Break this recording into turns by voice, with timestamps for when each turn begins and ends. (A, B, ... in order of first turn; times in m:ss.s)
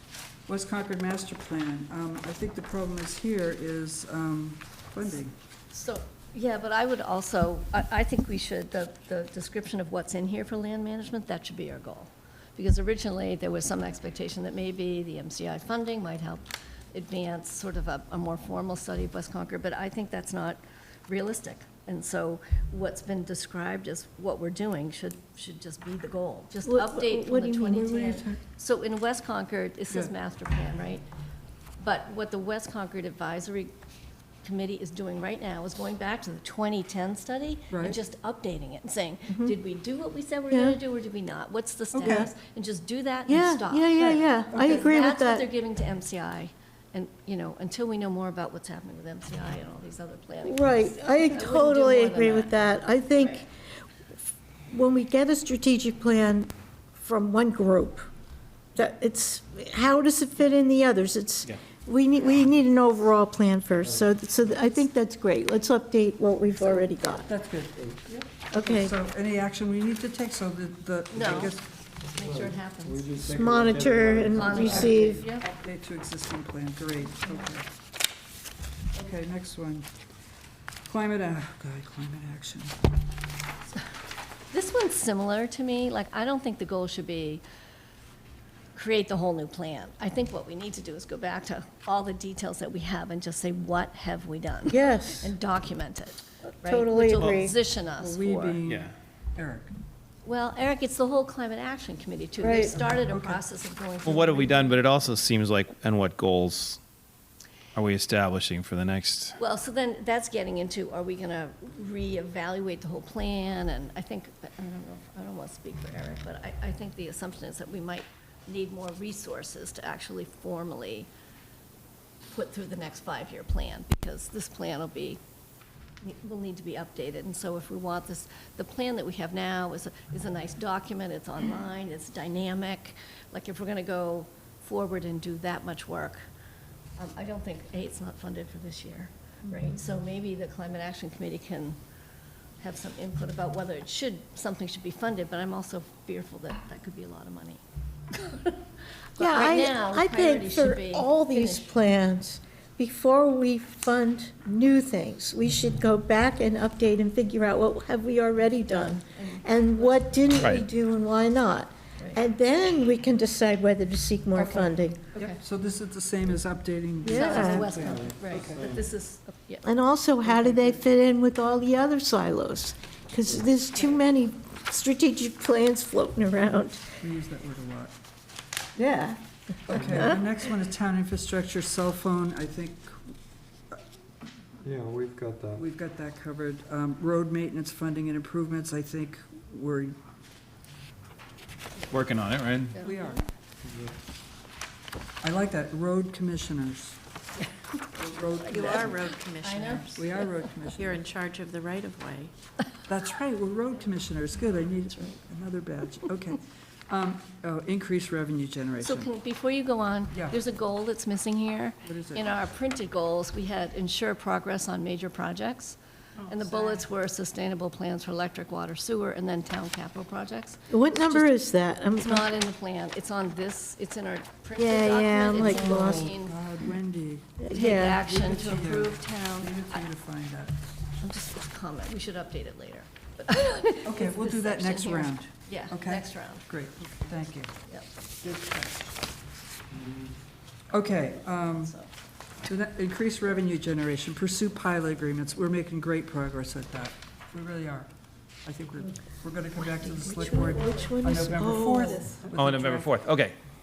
0:00.5-0:05.3 A
0:05.7-0:31.0 B
0:26.6-0:28.2 C
0:31.8-0:33.7 B
0:34.4-0:52.6 B
0:37.7-0:38.0 A
0:40.5-0:40.8 C
0:41.9-0:42.3 A
0:43.3-0:45.5 C
0:44.5-0:44.8 A
0:50.4-0:53.5 C
0:54.7-0:58.1 C
0:58.7-1:07.3 C
1:07.0-1:11.6 A
1:08.5-1:08.9 C
1:11.1-1:13.1 B
1:12.1-1:14.9 D
1:13.2-1:15.2 C
1:14.3-1:15.5 B
1:14.6-1:17.7 A
1:18.9-1:19.9 A
1:20.8-1:22.8 A
1:24.5-1:27.4 B
1:28.7-1:38.6 B
1:34.7-1:35.3 C
1:36.6-1:37.6 C
1:38.0-1:39.7 A
1:40.2-1:44.9 B
1:42.4-1:42.8 C
1:42.7-1:43.4 A
1:44.0-1:46.8 E
1:47.7-1:49.4 E
1:49.4-2:01.1 B
2:02.3-2:05.2 B
2:06.0-2:16.2 B
2:17.0-2:21.8 B
2:22.6-2:28.6 B
2:29.1-2:31.8 B
2:29.2-2:45.1 C
2:38.7-2:40.3 B
2:44.3-2:45.4 B
2:45.2-2:48.7 A
2:47.0-2:47.8 C
2:47.1-2:49.6 B
2:47.8-2:48.8 D
2:49.6-2:56.8 C
2:57.0-2:57.9 A
2:58.8-3:00.2 C
2:59.7-3:03.1 A
3:04.6-3:05.6 D
3:05.6-3:10.0 A
3:11.9-3:12.8 E
3:12.7-3:13.2 B
3:12.8-3:13.2 A
3:13.6-3:13.9 D
3:15.2-3:17.0 A
3:17.4-3:17.7 B
3:17.9-3:19.0 A
3:18.2-3:20.2 B
3:18.4-3:20.1 F
3:19.9-3:21.0 A
3:20.7-3:22.3 F
3:22.8-3:29.1 A
3:28.8-3:41.4 B
3:31.8-3:32.2 A
3:36.2-3:36.7 A
3:40.7-3:42.3 C
3:41.9-3:46.4 B
3:44.6-3:46.1 C
3:45.3-3:50.5 A
3:47.4-3:48.0 C
3:47.5-3:49.8 B
3:51.0-3:56.5 B
3:53.8-3:57.5 A
3:58.2-3:58.8 A
3:59.7-4:00.1 D
4:00.7-4:01.8 A
4:01.5-4:01.9 B
4:02.4-4:07.9 A
4:08.4-4:13.1 A
4:10.0-4:12.1 C
4:12.4-4:13.3 E